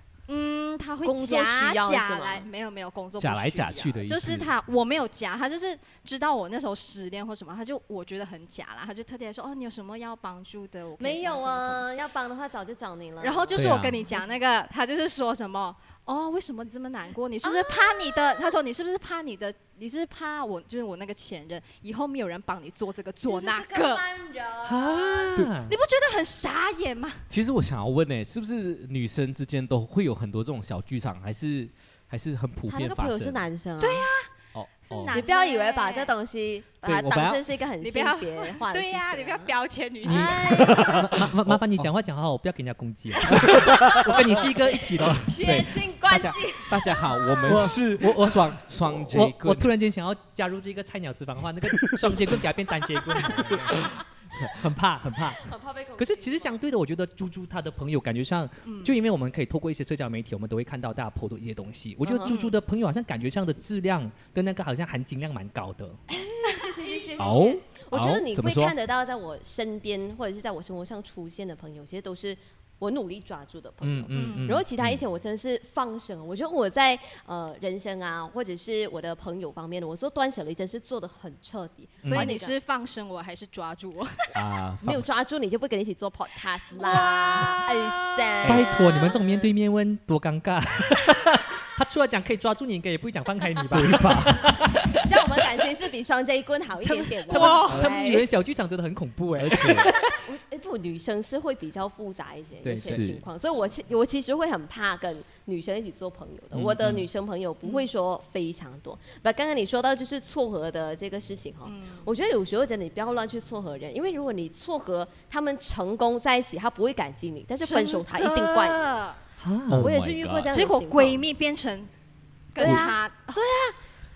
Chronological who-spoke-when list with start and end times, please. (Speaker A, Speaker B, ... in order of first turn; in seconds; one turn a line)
Speaker A: 0.3-11.8
Speaker B: 1.0-2.5
Speaker C: 3.2-4.5
Speaker B: 11.0-13.7
Speaker A: 13.2-24.0
Speaker D: 13.6-14.1
Speaker C: 13.6-13.9
Speaker B: 17.4-18.4
Speaker B: 23.2-25.3
Speaker D: 24.6-25.8
Speaker A: 25.6-27.2
Speaker C: 27.3-33.4
Speaker B: 32.7-34.1
Speaker A: 33.8-34.3
Speaker C: 34.5-35.2
Speaker A: 34.8-36.1
Speaker B: 35.1-41.0
Speaker C: 36.8-37.4
Speaker A: 37.8-40.8
Speaker D: 40.0-45.5
Speaker C: 40.6-41.9
Speaker C: 43.2-44.5
Speaker C: 45.2-49.7
Speaker B: 45.2-47.7
Speaker D: 47.4-66.0
Speaker B: 55.4-56.5
Speaker A: 58.6-58.9
Speaker B: 62.0-62.4
Speaker A: 62.3-62.5
Speaker B: 66.1-82.5
Speaker A: 66.5-67.1
Speaker C: 67.2-68.7
Speaker D: 73.8-74.7
Speaker A: 74.1-74.5
Speaker D: 82.0-82.3
Speaker A: 82.0-84.4
Speaker C: 84.3-85.1
Speaker B: 84.8-89.5
Speaker A: 86.7-88.6
Speaker D: 88.5-95.0
Speaker C: 93.7-94.3
Speaker B: 94.9-98.3
Speaker D: 97.2-100.2
Speaker A: 97.3-97.9
Speaker C: 99.4-99.9
Speaker B: 100.1-118.9
Speaker D: 102.6-103.0
Speaker C: 102.8-103.2
Speaker C: 106.5-107.0
Speaker A: 111.6-112.1
Speaker A: 117.6-119.2
Speaker D: 119.4-119.9
Speaker C: 119.7-120.5
Speaker B: 119.8-121.2
Speaker A: 120.5-121.9
Speaker A: 122.5-123.7
Speaker B: 122.5-123.5